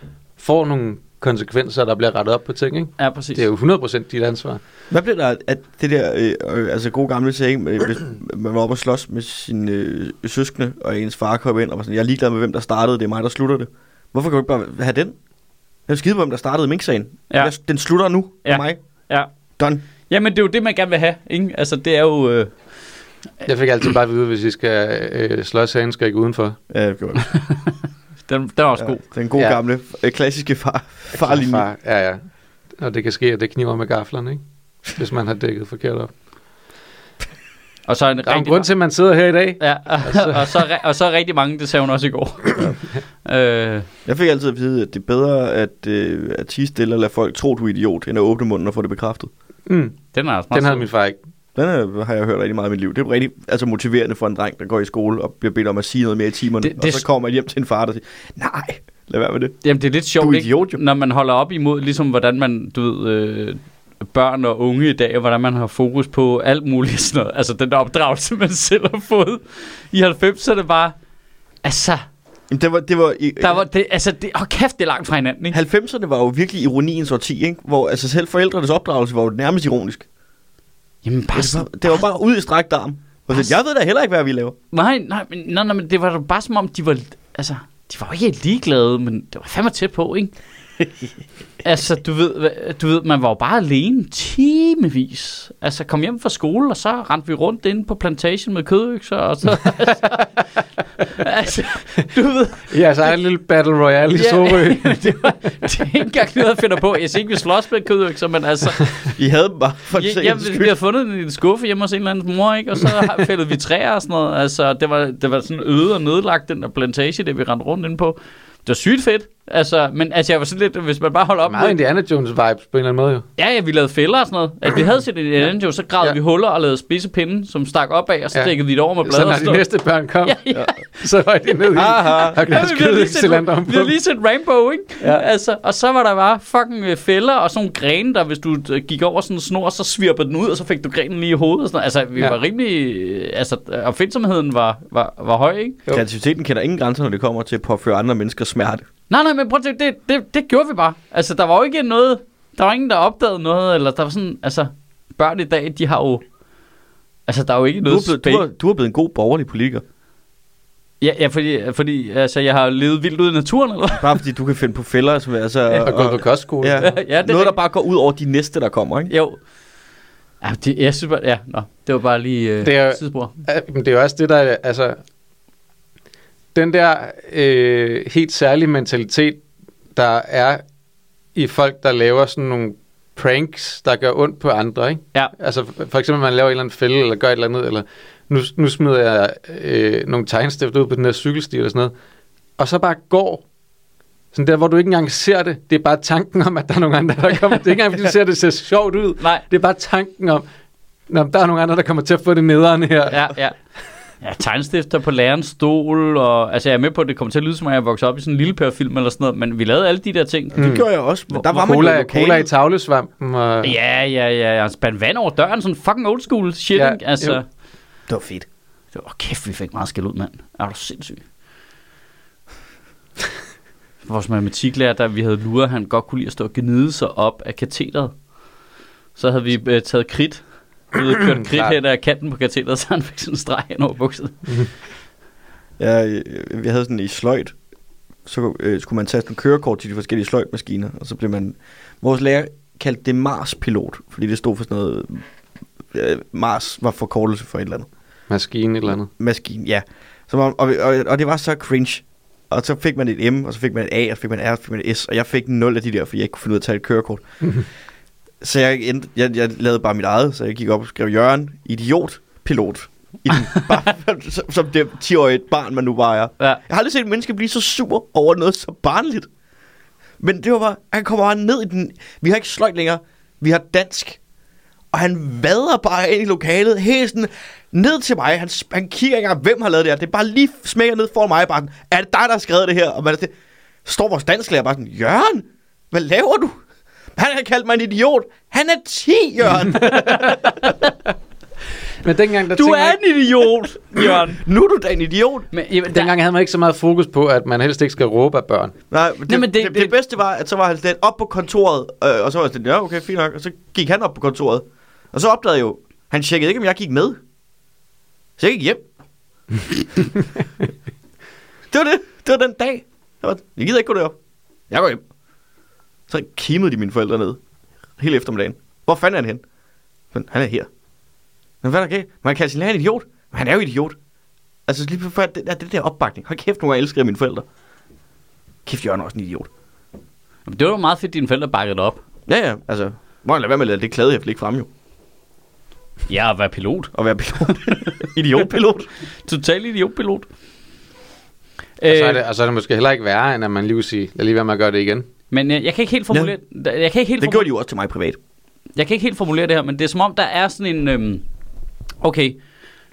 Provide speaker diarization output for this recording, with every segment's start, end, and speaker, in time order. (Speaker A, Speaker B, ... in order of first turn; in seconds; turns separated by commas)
Speaker A: 0.4-4.6, Speaker B: 3.0-3.4, Speaker C: 4.9-15.2, Speaker C: 15.9-18.8, Speaker B: 18.4-19.3, Speaker B: 20.1-22.5, Speaker A: 23.4-26.6, Speaker C: 26.7-27.2, Speaker B: 27.3-29.0, Speaker C: 28.8-31.6, Speaker A: 31.1-32.2, Speaker A: 32.8-36.1, Speaker B: 37.9-38.7, Speaker A: 38.3-40.6, Speaker B: 39.6-43.9, Speaker C: 44.0-49.3, Speaker A: 49.7-50.0, Speaker B: 50.1-50.9, Speaker A: 50.5-51.2, Speaker C: 51.5-59.6, Speaker B: 56.6-57.0, Speaker B: 59.6-70.9, Speaker C: 60.2-60.8, Speaker B: 71.6-72.0, Speaker C: 72.5-73.6, Speaker B: 73.4-75.6, Speaker C: 75.5-80.0, Speaker B: 81.0-82.0, Speaker C: 81.3-84.5, Speaker B: 84.7-90.3, Speaker B: 91.6-100.3, Speaker B: 101.1-102.7, Speaker A: 102.7-105.3, Speaker B: 104.1-108.9, Speaker C: 109.2-110.7, Speaker B: 110.0-121.8, Speaker A: 121.5-123.2, Speaker B: 123.4-129.6, Speaker A: 128.3-133.9, Speaker B: 130.2-130.8, Speaker C: 131.7-132.4, Speaker B: 131.7-145.8, Speaker C: 145.9-148.9, Speaker B: 149.1-156.2, Speaker B: 157.3-158.4, Speaker C: 157.8-159.8, Speaker B: 161.0-164.1, Speaker C: 164.0-169.1, Speaker A: 165.7-167.0, Speaker B: 166.8-167.6, Speaker B: 169.1-169.4, Speaker B: 170.4-173.3, Speaker A: 172.6-175.0, Speaker A: 176.5-179.4, Speaker A: 179.9-180.6, Speaker A: 181.3-191.9, Speaker A: 192.6-193.4, Speaker A: 194.3-200.4, Speaker A: 201.1-203.2, Speaker B: 203.1-203.5, Speaker B: 204.2-210.6, Speaker C: 210.5-212.5, Speaker A: 210.6-210.9, Speaker A: 211.4-213.7, Speaker B: 213.6-217.4, Speaker A: 216.7-217.4, Speaker C: 218.1-218.4, Speaker B: 218.9-221.2, Speaker B: 224.0-228.2, Speaker B: 229.2-234.6, Speaker A: 231.4-231.7, Speaker C: 235.8-237.5, Speaker C: 238.2-245.2, Speaker C: 245.9-247.9, Speaker A: 248.3-249.1, Speaker C: 249.1-257.2, Speaker C: 258.4-269.3, Speaker C: 270.2-274.2, Speaker C: 274.9-283.3, Speaker C: 283.8-286.6, Speaker C: 287.1-290.4, Speaker A: 289.9-290.3, Speaker B: 289.9-290.8, Speaker A: 292.0-293.0, Speaker B: 292.5-294.4, Speaker C: 293.9-295.5, Speaker B: 295.5-296.1, Speaker A: 295.9-298.7, Speaker C: 298.9-307.2, Speaker B: 299.3-299.9, Speaker C: 308.4-308.9, Speaker C: 311.7-314.1, Speaker C: 314.7-315.0, Speaker C: 316.1-317.4, Speaker C: 318.0-319.4, Speaker C: 320.1-320.7, Speaker C: 321.6-323.9, Speaker C: 324.7-327.4, Speaker C: 328.6-329.5, Speaker B: 330.4-332.0, Speaker C: 332.3-334.7, Speaker B: 336.1-336.9, Speaker C: 336.9-338.9, Speaker B: 337.5-338.1, Speaker B: 339.2-340.3, Speaker B: 341.8-342.2, Speaker A: 341.9-345.1, Speaker B: 345.3-347.4, Speaker C: 347.2-348.2, Speaker B: 348.8-351.2, Speaker B: 352.0-352.4